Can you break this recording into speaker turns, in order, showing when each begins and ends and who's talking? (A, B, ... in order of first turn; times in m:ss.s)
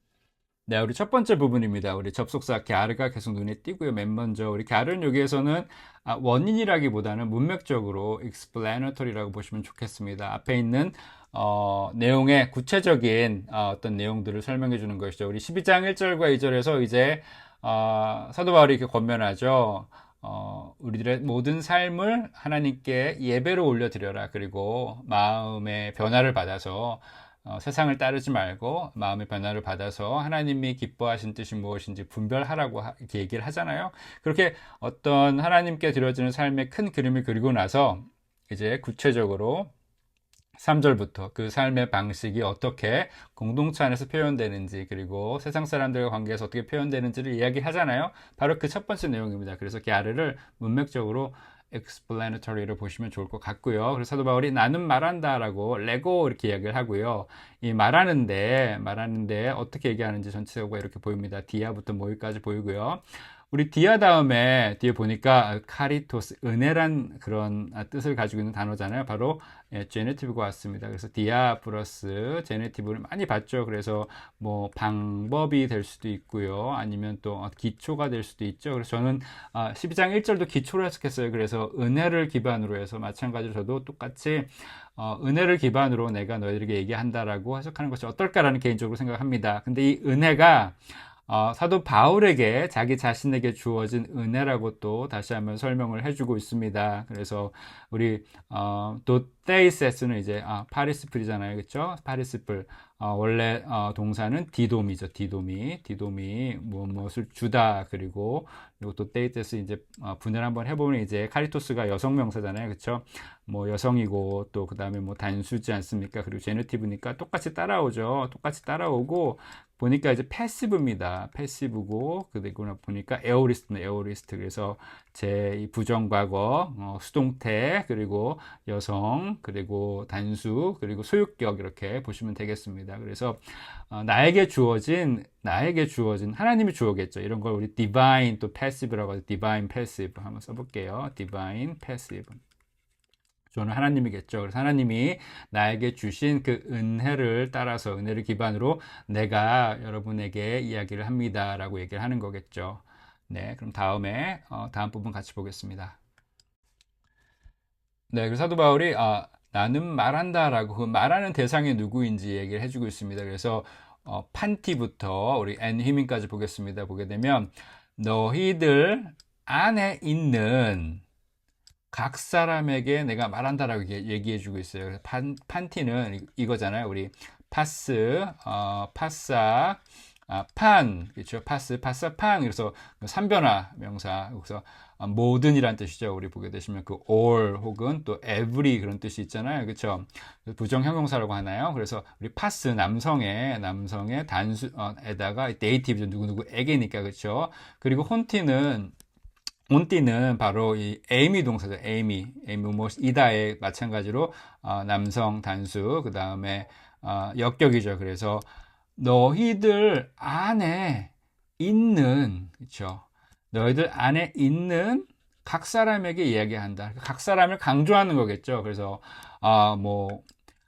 0:00.7-0:39.7 A
0:40.6-2:22.4 A
2:23.5-2:36.0 A
2:38.1-2:51.0 A
2:51.9-3:18.9 A
3:19.7-3:28.4 A
3:29.0-3:40.2 A